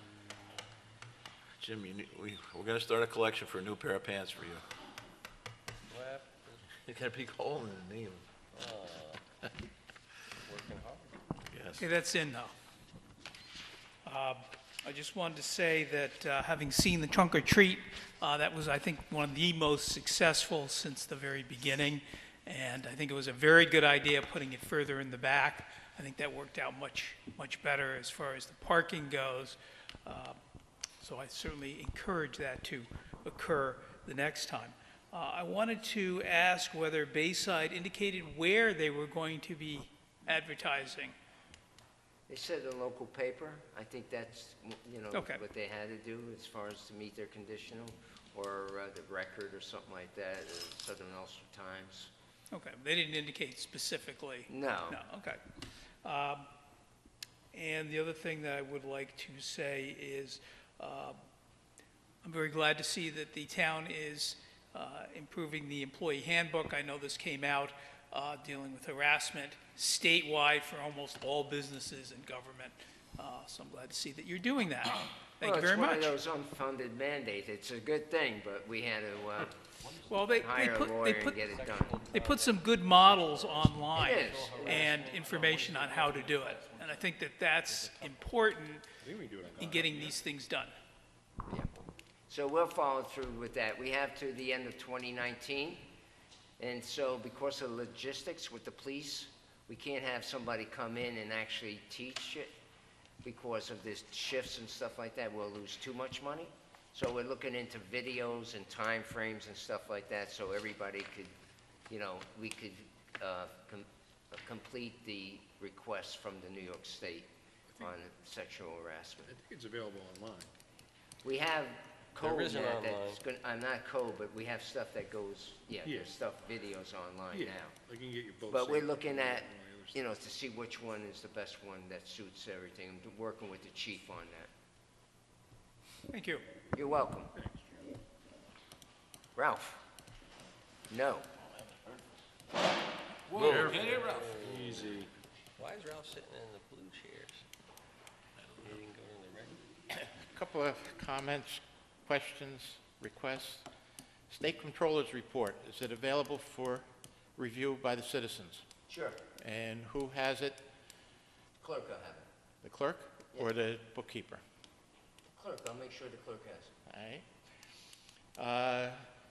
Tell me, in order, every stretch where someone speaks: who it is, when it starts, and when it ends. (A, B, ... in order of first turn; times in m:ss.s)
0:01.6-0:04.6 A
0:05.9-0:06.6 B
0:06.8-0:08.3 A
0:08.5-0:09.2 B
0:10.4-0:11.2 B
0:11.5-0:11.8 A
0:11.8-0:12.5 C
0:14.0-0:30.4 C
0:31.0-0:41.2 C
0:42.3-0:52.1 D
0:45.1-0:45.4 C
0:52.5-0:55.4 C
0:54.5-0:55.0 D
0:56.0-0:56.5 C
0:57.5-1:01.2 C
1:02.2-1:16.2 C
1:15.4-1:19.6 D
1:20.1-1:21.4 C
1:20.4-1:22.0 D
1:21.5-1:27.0 B
1:22.1-1:28.8 C
1:24.0-1:25.0 D
1:29.0-1:30.2 E
1:29.6-1:30.7 C
1:31.5-1:35.9 D
1:36.6-1:42.5 D
1:43.2-1:51.3 D
1:51.9-1:59.3 D
1:59.2-2:00.5 E
2:01.2-2:07.8 D
2:02.2-2:03.2 B
2:05.8-2:06.2 E
2:07.3-2:10.0 E
2:08.5-2:14.5 D
2:16.1-2:16.4 C
2:16.7-2:17.3 D
2:17.4-2:17.8 E
2:19.4-2:19.8 D
2:20.9-2:21.3 D
2:23.3-2:25.1 E
2:23.3-2:25.0 B
2:23.6-2:24.0 A
2:25.6-2:27.4 B
2:28.6-2:29.6 B
2:29.9-2:33.7 F
2:34.3-2:38.6 F
2:38.9-2:39.2 D
2:39.4-2:40.6 F
2:41.6-2:42.3 D
2:42.6-2:44.4 F
2:45.4-2:46.7 D
2:46.9-2:47.2 F
2:48.4-2:49.1 F